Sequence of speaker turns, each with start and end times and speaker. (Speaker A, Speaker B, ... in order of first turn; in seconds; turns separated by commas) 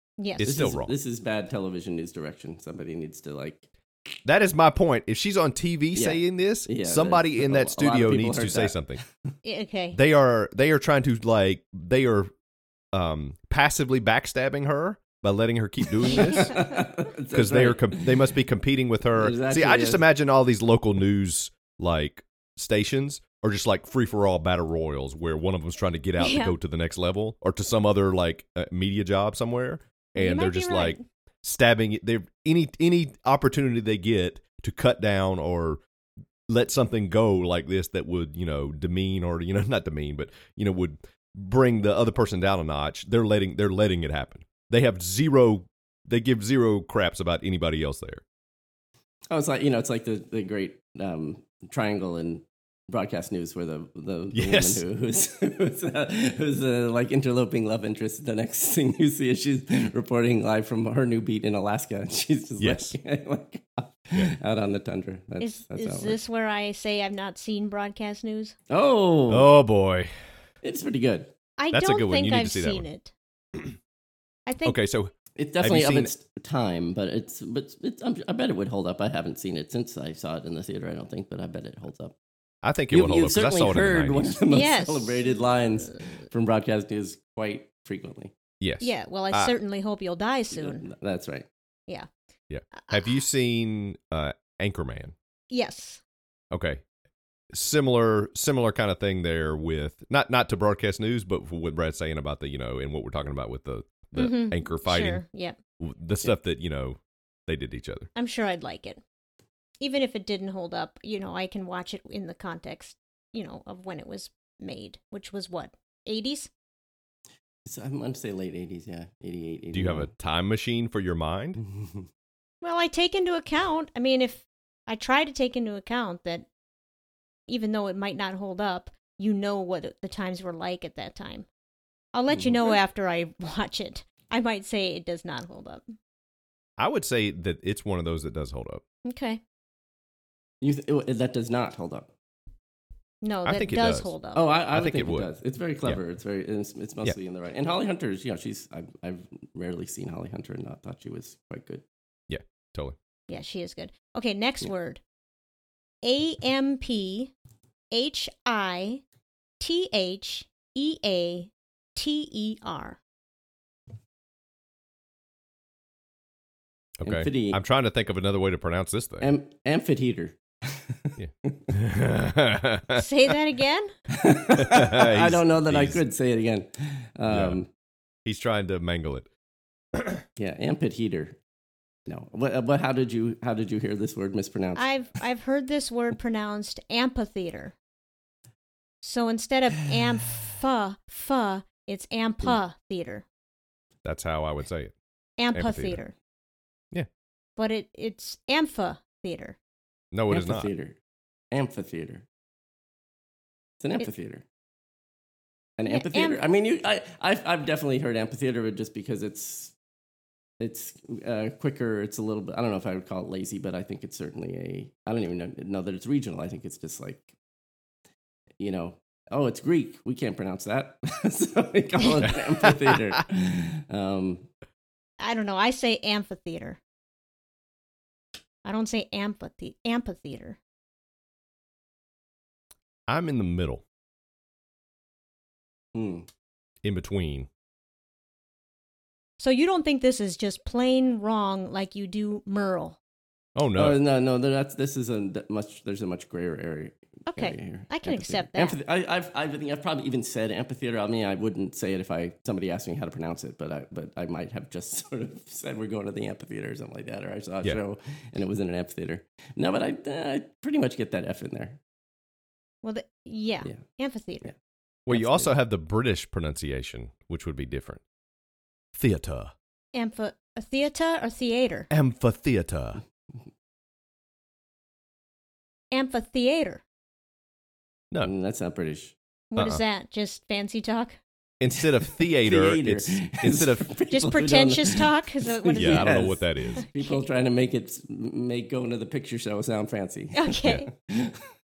Speaker A: 0.2-0.5, Speaker B: 0.4-0.9, Speaker C: 0.4-3.7, Speaker B: 4.2-9.0, Speaker C: 6.0-8.8, Speaker A: 9.4-10.0, Speaker B: 9.9-12.3, Speaker B: 12.9-16.7, Speaker C: 16.0-18.3, Speaker B: 17.3-35.8, Speaker C: 19.1-20.0, Speaker A: 26.2-26.6, Speaker A: 30.2-31.0, Speaker B: 36.5-48.2, Speaker C: 49.3-66.2, Speaker B: 54.3-54.8, Speaker B: 62.6-63.0, Speaker A: 65.4-68.5, Speaker C: 68.7-69.5, Speaker B: 69.3-70.1, Speaker C: 70.6-71.3, Speaker A: 71.6-73.1, Speaker B: 71.7-72.9, Speaker A: 74.5-74.8, Speaker B: 74.7-76.1, Speaker C: 75.4-82.2, Speaker B: 82.6-84.4, Speaker C: 82.9-88.3, Speaker A: 84.5-85.3, Speaker B: 88.6-89.5, Speaker A: 88.8-90.8, Speaker C: 90.5-91.5, Speaker B: 92.5-95.2, Speaker A: 95.5-96.0, Speaker B: 96.5-96.8, Speaker B: 97.5-105.2, Speaker A: 104.2-105.6, Speaker B: 105.8-108.1, Speaker A: 108.2-109.0, Speaker A: 109.8-116.5, Speaker C: 117.7-120.1, Speaker B: 119.7-121.6, Speaker C: 121.6-122.1, Speaker A: 122.6-126.5, Speaker A: 127.5-131.5, Speaker A: 132.1-135.9, Speaker C: 132.3-132.8, Speaker B: 136.8-138.8, Speaker A: 139.0-139.4, Speaker C: 140.6-142.1, Speaker A: 143.2-144.5, Speaker B: 143.4-144.1, Speaker C: 144.3-151.8, Speaker B: 144.7-145.3, Speaker B: 152.3-153.0, Speaker A: 153.3-155.0, Speaker A: 156.0-157.3, Speaker A: 157.9-159.0, Speaker A: 159.6-163.0, Speaker B: 167.0-169.3, Speaker C: 167.1-167.6, Speaker C: 169.2-171.6, Speaker B: 171.2-173.0, Speaker A: 172.9-173.9, Speaker C: 174.1-177.7, Speaker B: 174.6-176.0, Speaker B: 177.3-177.6, Speaker B: 178.3-179.3, Speaker B: 179.9-180.2, Speaker C: 180.4-181.4, Speaker C: 182.1-184.9, Speaker A: 184.8-187.8, Speaker A: 189.0-193.2, Speaker B: 194.0-194.9, Speaker A: 195.4-196.2, Speaker B: 195.5-196.0, Speaker A: 197.6-199.6, Speaker B: 200.1-200.7, Speaker C: 200.3-201.0, Speaker C: 201.5-202.2, Speaker C: 203.8-204.4, Speaker C: 205.8-209.7, Speaker A: 205.9-206.4, Speaker C: 210.6-217.3, Speaker C: 218.6-224.5, Speaker B: 222.2-223.0, Speaker A: 225.2-226.8, Speaker A: 228.6-230.6, Speaker B: 233.1-233.8, Speaker C: 235.9-236.3, Speaker B: 236.8-237.5, Speaker A: 239.4-243.0, Speaker B: 243.6-244.0, Speaker C: 243.8-261.8, Speaker A: 247.3-248.8, Speaker A: 262.8-264.5, Speaker B: 265.1-268.0, Speaker C: 265.1-265.5, Speaker B: 268.9-269.5, Speaker A: 269.9-271.9, Speaker B: 271.9-273.0, Speaker A: 275.9-276.8, Speaker C: 278.2-279.1, Speaker A: 279.5-281.2, Speaker B: 279.6-279.8, Speaker B: 281.6-283.9, Speaker C: 281.8-291.5, Speaker A: 284.1-286.3, Speaker B: 285.8-286.9, Speaker A: 286.8-287.2, Speaker A: 290.3-290.9